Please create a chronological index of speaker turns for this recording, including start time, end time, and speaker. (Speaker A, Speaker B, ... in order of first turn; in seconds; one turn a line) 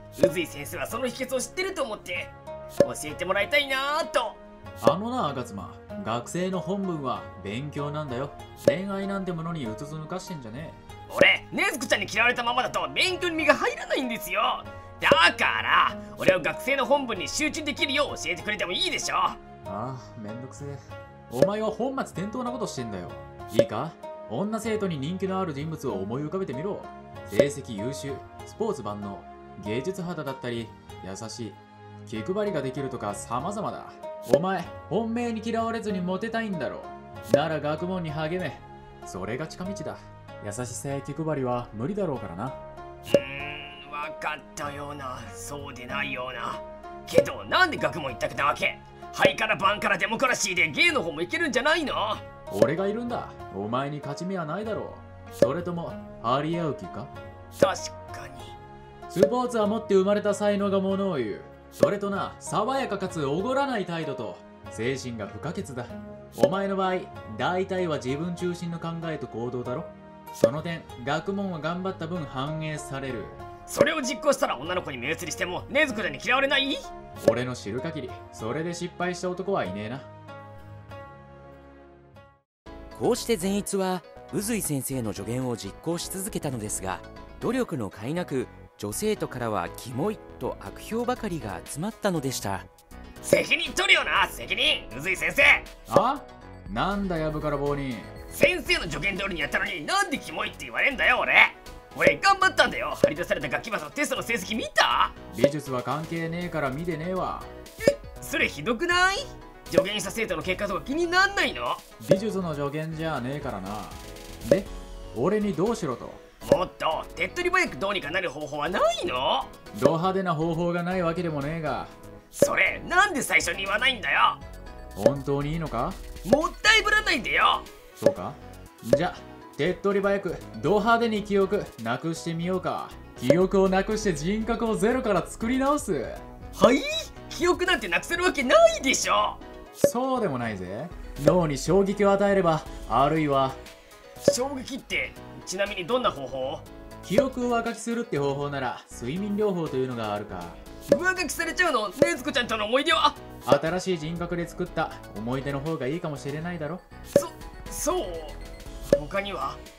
Speaker A: 0.2-4.4
Speaker B: 4.8-10.8
Speaker A: 11.1-19.4
Speaker B: 19.7-42.6
Speaker A: 43.1-52.2
Speaker B: 52.5-57.1
Speaker A: 57.6-58.6
Speaker B: 59.1-73.4
Speaker A: 73.7-76.8
Speaker B: 77.2-80.1
Speaker C: 83.0-92.7
Speaker A: 93.2-95.7
Speaker B: 95.9-98.1
Speaker A: 98.3-105.2
Speaker B: 105.3-107.5
Speaker A: 107.8-111.8
Speaker B: 112.0-116.2
Speaker A: 116.4-119.5
Speaker B: 119.7-121.9
Speaker A: 122.3-124.4
Speaker B: 125.0-126.0
Speaker A: 126.2-127.7
Speaker B: 128.0-136.2
Speaker A: 136.6-139.4
Speaker B: 139.8-143.6
Speaker A: 144.2-146.7
Speaker B: 147.0-150.6
Speaker A: 150.9-153.2
Speaker B: 153.4-156.8
Speaker A: 157.1-159.6